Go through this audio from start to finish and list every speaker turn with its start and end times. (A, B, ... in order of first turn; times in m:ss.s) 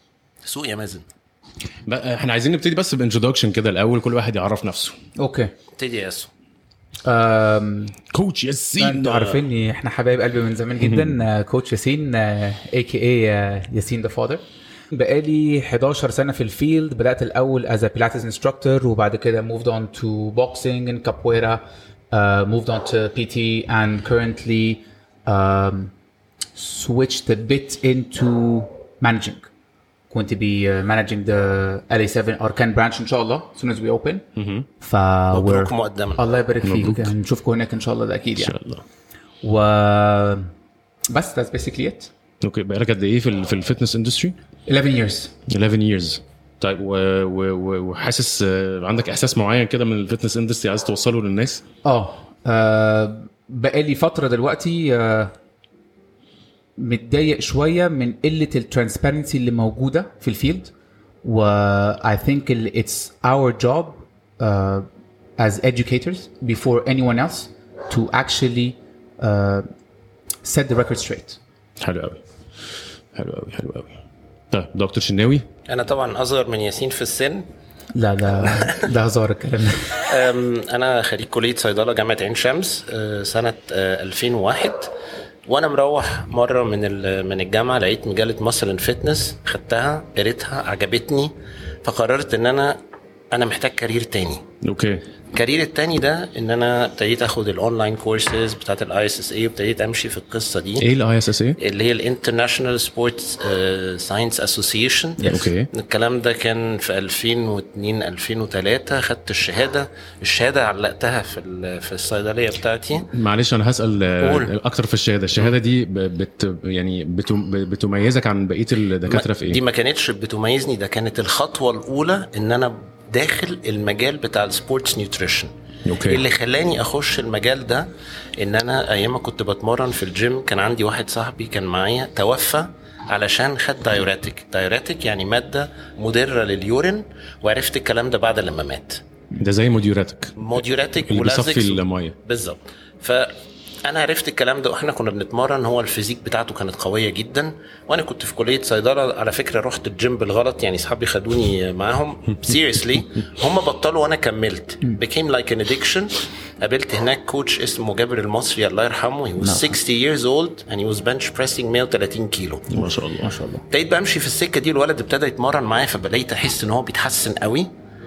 0:00.4-0:01.0 A
0:01.9-0:04.9 B
0:05.2-0:05.5 C
0:05.8-0:06.3 A
0:07.0-0:08.0 C
0:08.1-0:09.4 B
0:08.8-0:25.9 C
0:10.8-0:11.2 B
0:26.5-0:29.5 C
0:30.1-0:34.3 C
0:34.4-0:34.7 B
0:34.8-0:38.6 C
0:35.3-0:36.2 A
0:36.6-0:37.1 B
0:38.4-0:38.8 B
0:39.4-0:40.5 C
0:41.1-0:42.1 C
0:42.4-0:44.4 B
0:44.7-0:45.3 C
0:45.5-0:51.6 B
0:51.8-0:55.3 C
0:56.8-1:00.7 C
1:01.2-1:04.8 C
1:05.4-1:09.6 C
1:10.4-1:11.4 C
1:11.8-1:12.2 B
1:13.1-1:14.0 B
1:14.5-1:15.4 B
1:15.7-1:17.4 A
1:17.9-1:20.0 C
1:18.4-1:18.9 A
1:20.0-1:24.9 A
1:25.5-1:31.3 A
1:31.8-1:32.8 A
1:33.3-1:34.4 A
1:34.6-1:35.0 B
1:35.3-1:40.8 A
1:40.8-1:41.6 B
1:41.6-1:53.1 A
1:45.2-1:45.5 C
1:45.2-1:45.7 B
1:53.1-1:59.6 B
1:54.2-1:54.5 A
1:59.1-2:05.5 A
2:05.8-2:06.2 B
2:06.0-2:19.0 A
2:19.4-2:22.2 B
2:20.4-2:42.6 A
2:39.4-2:39.8 C
2:42.7-2:43.3 B
2:43.2-2:43.6 C
2:43.7-2:47.7 A